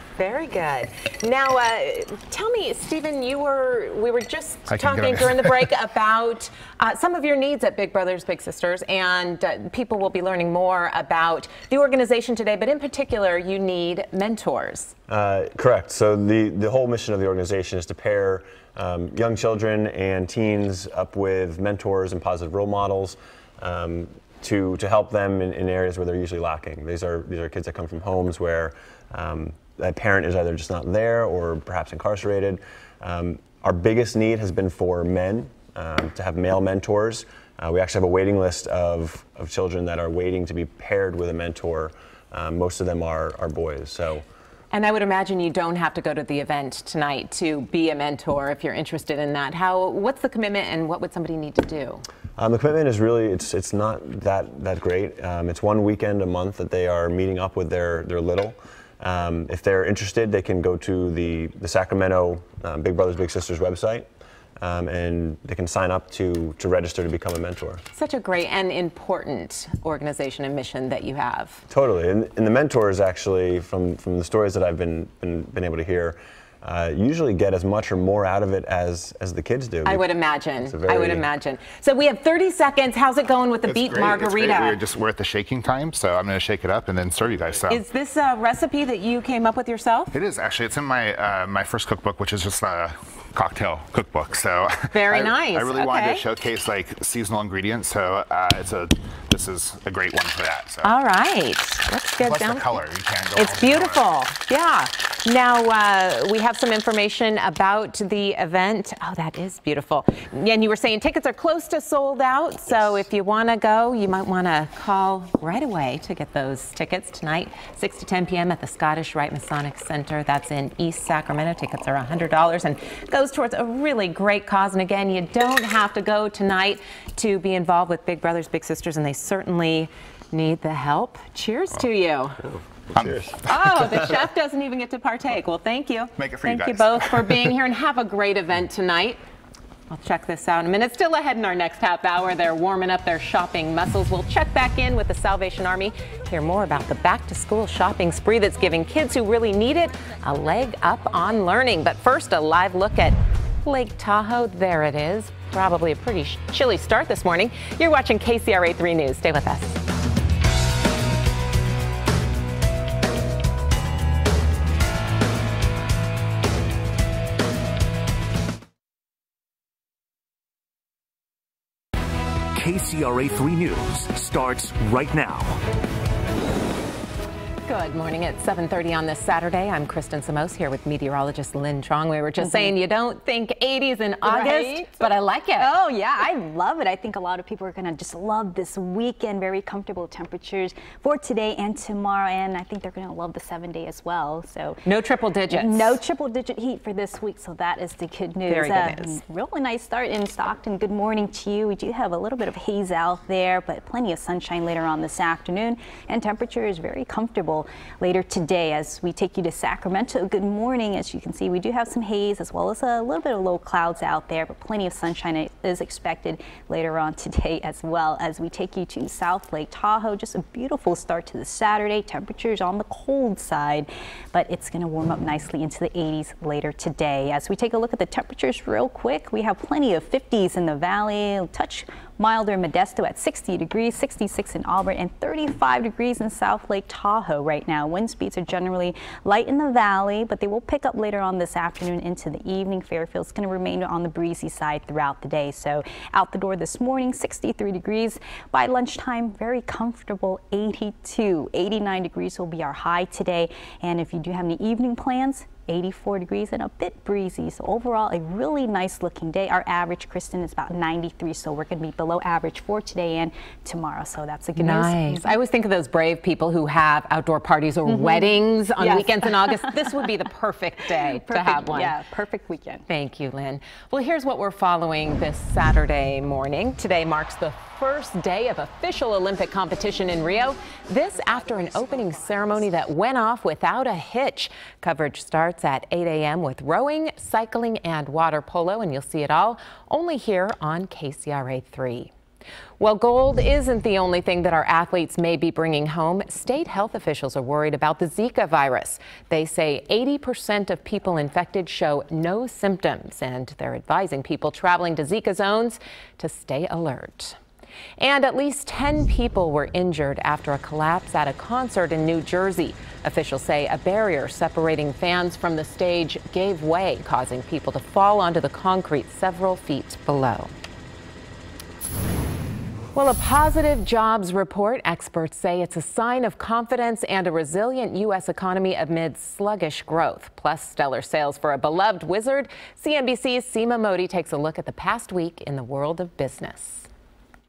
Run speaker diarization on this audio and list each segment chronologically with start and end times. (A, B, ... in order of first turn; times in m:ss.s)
0:00.2-0:14.9 A
0:04.7-0:05.7 B
0:15.1-0:44.2 C
0:44.7-0:52.0 A
0:52.4-1:04.1 C
1:04.6-1:07.8 C
1:07.9-1:11.6 A
1:11.7-1:20.1 C
1:19.8-1:24.8 A
1:20.6-1:21.3 C
1:23.6-1:27.8 B
1:27.7-1:30.1 A
1:30.1-1:40.9 B
1:34.9-1:36.2 A
1:40.8-1:42.8 A
1:42.2-1:44.1 B
1:43.3-2:12.4 A
2:12.9-2:13.8 B
2:13.4-2:19.2 A
2:16.2-2:17.5 B
2:19.9-2:39.8 A
2:52.5-2:55.6 D
2:57.6-3:05.7 A
3:02.4-3:02.7 E
3:04.2-3:14.8 E
3:14.8-3:16.0 A
3:15.5-4:25.3 E
3:18.4-3:19.2 A
4:24.6-4:31.9 A
4:27.8-4:30.1 E
4:30.9-4:32.8 E
4:32.9-4:52.1 A
4:52.8-5:07.4 A
5:08.0-5:20.5 A
5:22.9-5:36.9 A